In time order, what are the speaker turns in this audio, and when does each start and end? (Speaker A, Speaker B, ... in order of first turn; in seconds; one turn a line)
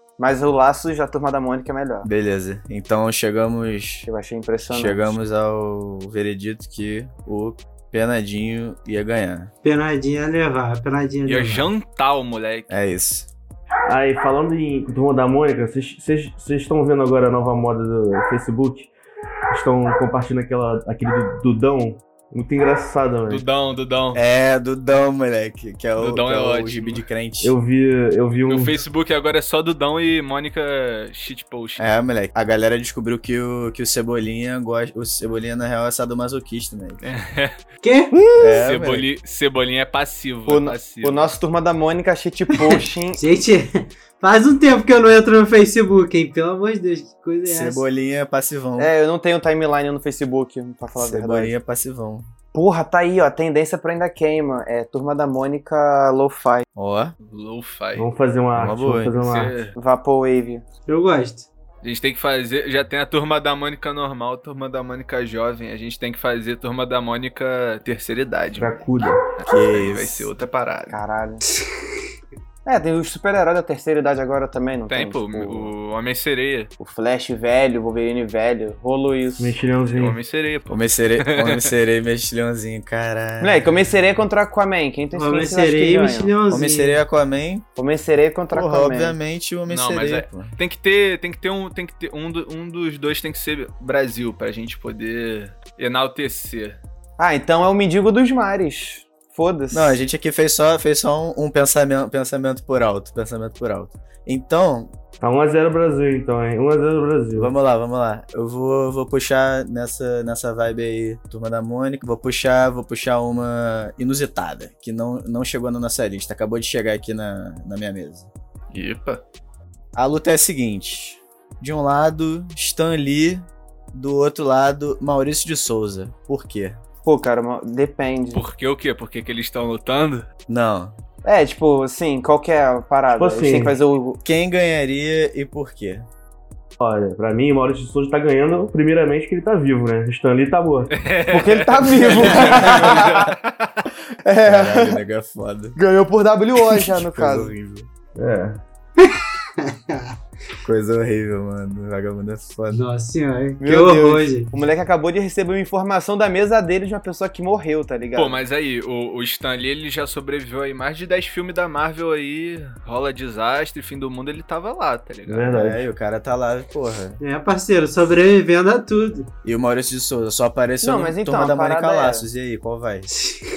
Speaker A: 0.2-2.1
Speaker B: 2.0-4.1
Speaker A: 4.1-5.2
Speaker B: 4.7-9.5
Speaker C: 9.6-11.7
Speaker D: 11.3-12.7
Speaker B: 12.7-13.3
Speaker E: 13.9-18.9
Speaker E: 19.5-23.4
Speaker D: 23.3-24.2
Speaker B: 24.1-27.6
Speaker D: 26.0-27.0
Speaker E: 27.4-28.8
Speaker D: 28.5-31.9
Speaker B: 31.8-37.0
Speaker D: 37.0-37.6
Speaker C: 37.8-38.3
Speaker A: 38.2-38.6
Speaker B: 38.4-39.1
Speaker D: 38.6-41.3
Speaker A: 40.5-43.2
Speaker C: 42.6-47.8
Speaker B: 47.5-48.9
Speaker A: 48.8-51.5
Speaker B: 51.0-52.3
Speaker A: 52.5-56.6
Speaker B: 56.8-57.1
Speaker D: 57.2-58.1
Speaker E: 58.0-59.6
Speaker B: 58.5-59.1
Speaker D: 59.2-59.8
Speaker A: 59.8-60.6
Speaker C: 60.9-61.5
Speaker D: 61.8-71.0
Speaker E: 68.6-69.2
Speaker B: 69.5-70.3
Speaker A: 70.9-71.5
Speaker A: 72.7-75.7
Speaker D: 74.9-76.7
Speaker A: 76.8-79.6
Speaker E: 79.4-80.2
Speaker D: 79.8-81.7
Speaker B: 80.7-83.7
Speaker A: 83.4-86.3
Speaker C: 85.1-87.0
Speaker B: 86.5-87.7
Speaker A: 87.8-89.2
Speaker B: 88.5-90.5
Speaker D: 89.7-96.8
Speaker A: 97.2-100.0
Speaker B: 99.7-104.9
Speaker E: 105.2-107.5
Speaker B: 107.4-118.3
Speaker D: 118.7-119.2
Speaker B: 120.0-126.8
Speaker A: 127.0-128.4
Speaker D: 128.3-130.3
Speaker B: 130.5-130.9
Speaker A: 131.2-134.2
Speaker E: 133.1-133.8
Speaker B: 134.2-136.1
Speaker E: 136.8-140.9
Speaker D: 140.9-143.9
Speaker A: 141.3-143.3
Speaker A: 144.2-145.0
Speaker B: 144.4-145.8
Speaker A: 145.8-147.5
Speaker B: 146.7-147.9
Speaker E: 148.2-148.6
Speaker C: 149.0-150.1
Speaker B: 150.6-152.8
Speaker C: 152.7-154.5
Speaker A: 153.6-158.4
Speaker D: 158.2-165.6
Speaker E: 165.3-165.9
Speaker B: 165.5-167.2
Speaker C: 167.2-169.3
Speaker B: 169.4-173.1
Speaker A: 170.8-172.3